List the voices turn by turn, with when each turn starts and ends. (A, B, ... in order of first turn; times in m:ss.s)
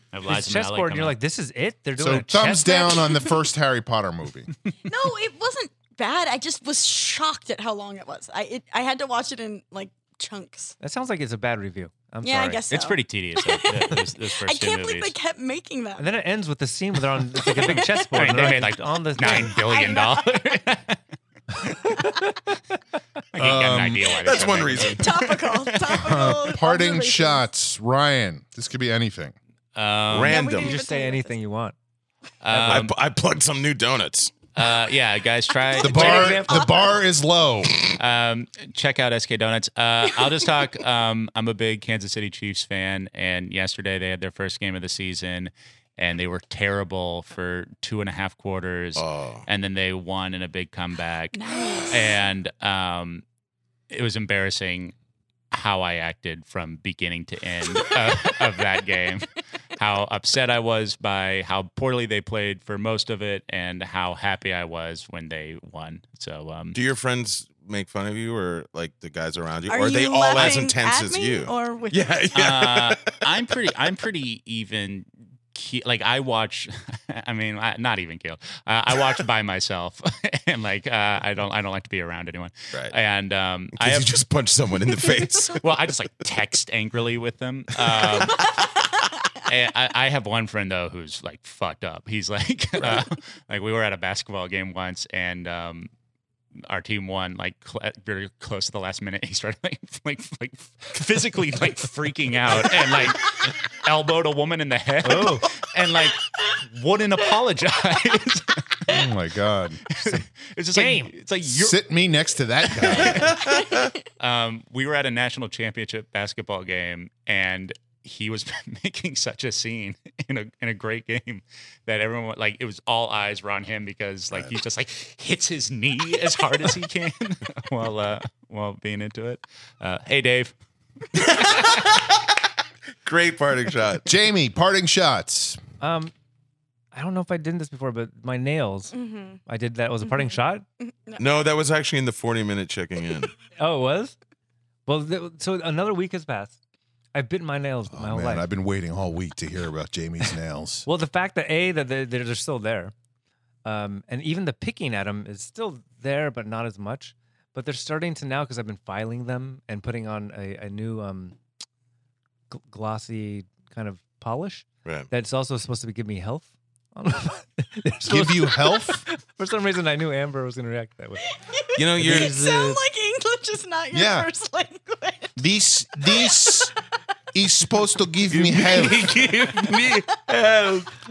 0:00.1-0:01.2 A
0:00.3-0:02.8 B
0:02.0-0:04.5 C
0:02.8-0:03.3 D
0:04.9-0:10.8 D
0:10.8-0:12.6 B
0:12.2-0:16.1 D
0:12.7-0:15.1 A
0:16.0-0:19.6 B
0:17.4-0:21.0 A
0:17.6-0:18.6 D
0:19.2-0:20.5 D
0:21.6-0:22.0 A
0:23.3-0:26.5 A
0:23.4-0:24.1 C
0:23.4-0:25.2 E
0:24.8-0:27.4 D
0:26.0-0:29.3 C
0:29.8-0:30.4 A
0:30.1-0:30.7 E
0:30.2-0:31.4 D
0:30.6-0:31.8 B
0:32.4-0:33.0 A
0:32.5-0:32.9 B
0:32.7-0:34.3 E
0:34.6-0:36.5 A
0:35.8-0:37.0 D
0:35.8-0:37.8 C
0:36.0-0:36.7 B
0:38.0-0:53.2 A
0:49.0-0:49.4 E
0:51.3-0:52.2 D
0:53.9-0:55.0 A
0:55.5-1:06.8 A
1:06.7-1:13.1 E
1:09.7-1:12.2 D
1:12.3-1:24.2 A
1:23.8-1:25.6 E
1:25.6-1:28.5 A
1:29.5-1:35.9 A
1:36.7-1:48.9 A
1:45.0-1:45.5 B
1:48.9-1:49.8 C
1:49.9-1:51.8 A
1:50.0-1:51.1 B
1:51.4-1:53.3 C
1:52.8-1:53.4 A
1:54.2-2:10.6 A
2:13.0-2:14.1 E
2:14.1-2:15.6 C
2:15.8-2:16.1 B
2:16.9-2:18.9 B
2:18.9-2:19.4 D
2:19.5-2:20.6 B
2:20.8-2:21.2 D
2:21.2-2:23.3 E
2:23.6-2:24.2 B
2:24.9-2:26.6 B
2:27.1-2:28.5 B
2:27.9-2:30.9 C
2:30.9-2:32.9 B
2:33.6-2:41.4 B
2:42.5-2:51.2 B
2:48.1-2:49.0 C
2:51.4-2:55.4 D
2:51.8-2:52.4 E
2:52.0-2:52.8 B
2:53.9-2:54.3 C
2:55.4-2:56.7 C
2:57.3-2:59.2 C
2:58.4-3:00.6 A
3:00.3-3:00.8 E